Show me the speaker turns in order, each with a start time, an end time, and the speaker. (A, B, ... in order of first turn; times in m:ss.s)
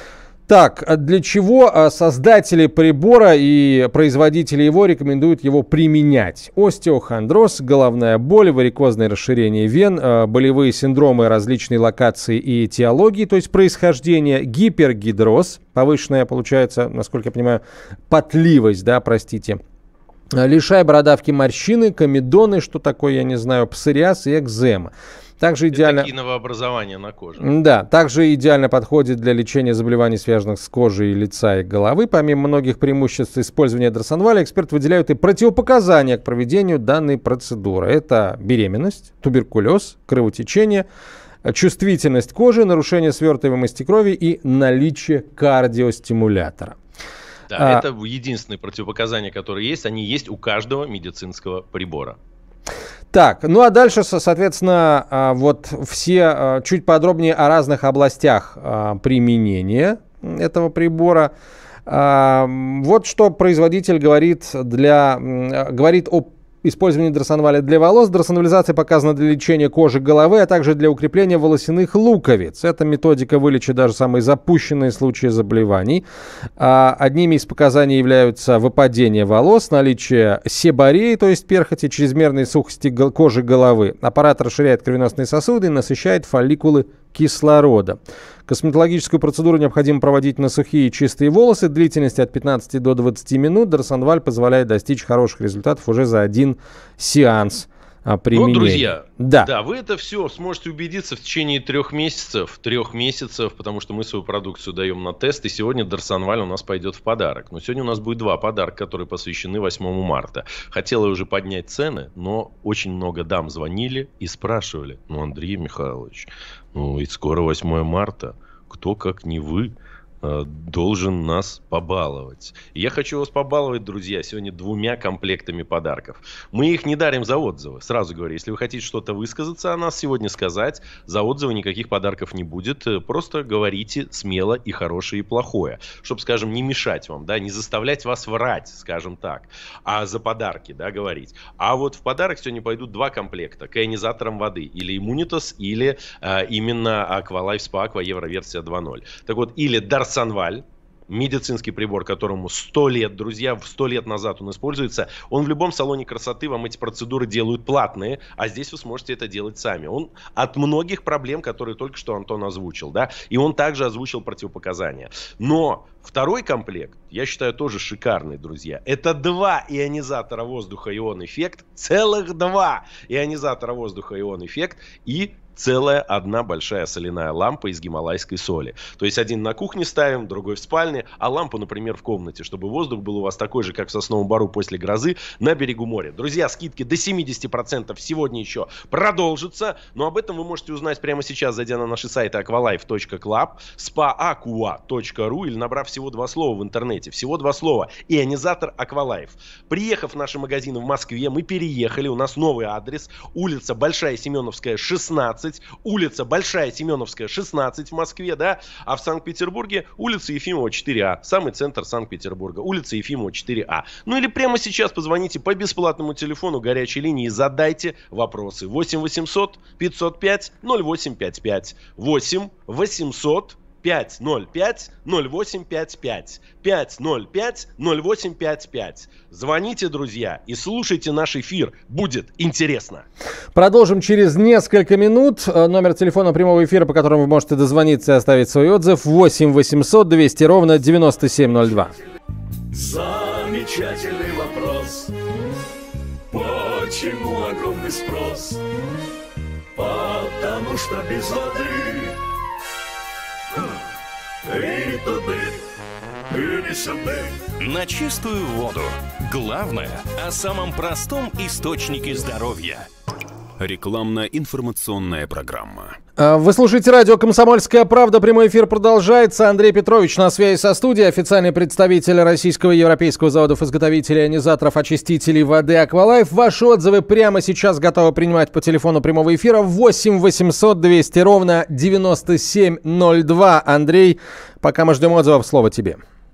0:00.5-0:19.6 A
0:20.3-0:26.1 A
0:25.7-0:27.5 B
0:27.4-0:40.8 A
0:41.4-0:46.8 A
0:47.5-0:52.2 B
0:47.6-0:47.8 A
0:53.1-1:01.3 A
1:01.9-1:16.0 A
1:16.6-1:39.5 A
1:38.3-3:53.1 B
3:53.5-4:02.0 A
4:02.7-4:05.1 C
4:06.3-4:08.6 C
4:09.7-4:12.2 C
4:14.4-4:15.6 C
4:16.3-4:17.5 C
4:17.6-4:22.9 D
4:23.6-4:26.0 E
4:26.2-4:46.0 A